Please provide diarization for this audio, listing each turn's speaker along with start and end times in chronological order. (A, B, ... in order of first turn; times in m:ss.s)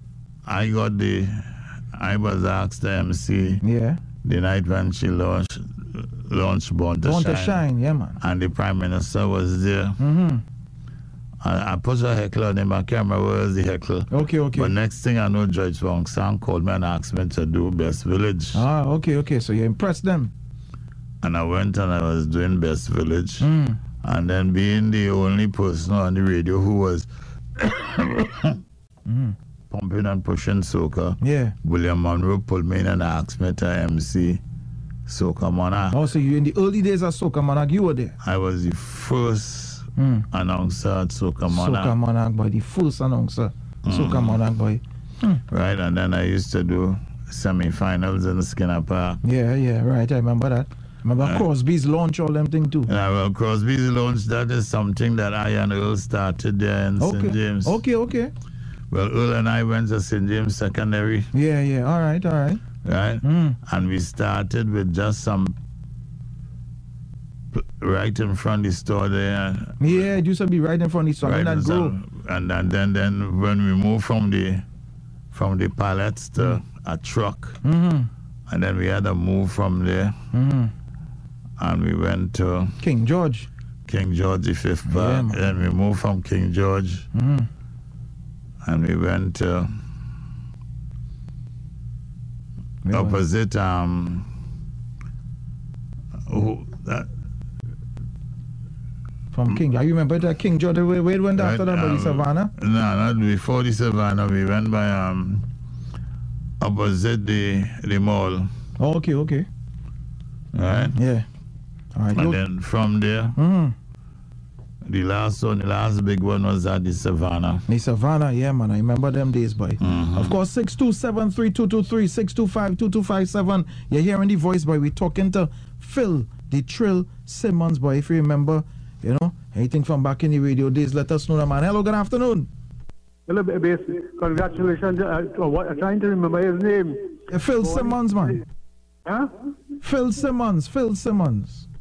0:00.4-0:03.6 A
0:03.6-0:04.0 B
0:04.2-0:07.6 A
0:07.0-0:08.2 B
0:08.2-0:10.0 A
0:10.0-0:10.4 B
0:11.4-0:18.6 A
0:14.1-0:14.7 B
0:18.5-0:20.3 B
0:21.2-0:23.5 A
0:23.4-0:23.8 B
0:24.0-0:28.6 A
0:29.0-0:29.4 B
0:29.7-0:34.4 A
0:31.2-0:31.5 B
0:35.0-0:36.0 A
0:35.9-0:38.2 B
0:38.2-0:42.0 A
0:40.0-0:40.3 B
0:41.5-0:45.4 B
0:43.8-0:44.4 A
0:45.5-0:49.2 A
0:49.2-0:52.9 B
0:52.9-0:57.8 A
0:57.0-0:58.3 B
0:58.9-1:01.3 A
1:01.3-1:02.6 B
1:02.8-1:05.6 A
1:03.2-1:03.6 B
1:07.5-1:10.1 A
1:09.8-1:12.0 B
1:11.2-1:14.6 A
1:15.3-1:17.6 A
1:17.6-1:18.1 B
1:18.5-1:20.2 A
1:20.3-1:20.7 B
1:21.6-1:22.8 A
1:22.8-1:23.5 B
1:23.8-1:27.1 A
1:24.9-1:25.5 B
1:27.1-1:27.5 B
1:28.6-1:29.7 A
1:32.8-1:33.2 B
1:32.9-1:34.3 A
1:36.3-1:37.1 A
1:39.3-1:42.5 B
1:41.4-1:45.4 A
1:46.6-1:48.5 A
1:48.8-1:49.5 B
1:50.5-1:51.0 A
1:50.9-1:51.2 B
1:51.9-1:52.4 B
1:52.1-1:53.4 A
1:53.4-1:53.7 B
1:54.8-1:57.6 A
1:57.7-2:12.5 B
1:59.8-2:00.3 A
2:13.3-2:18.2 C
2:17.3-2:18.4 B
2:19.0-2:19.3 C
2:19.8-2:21.7 B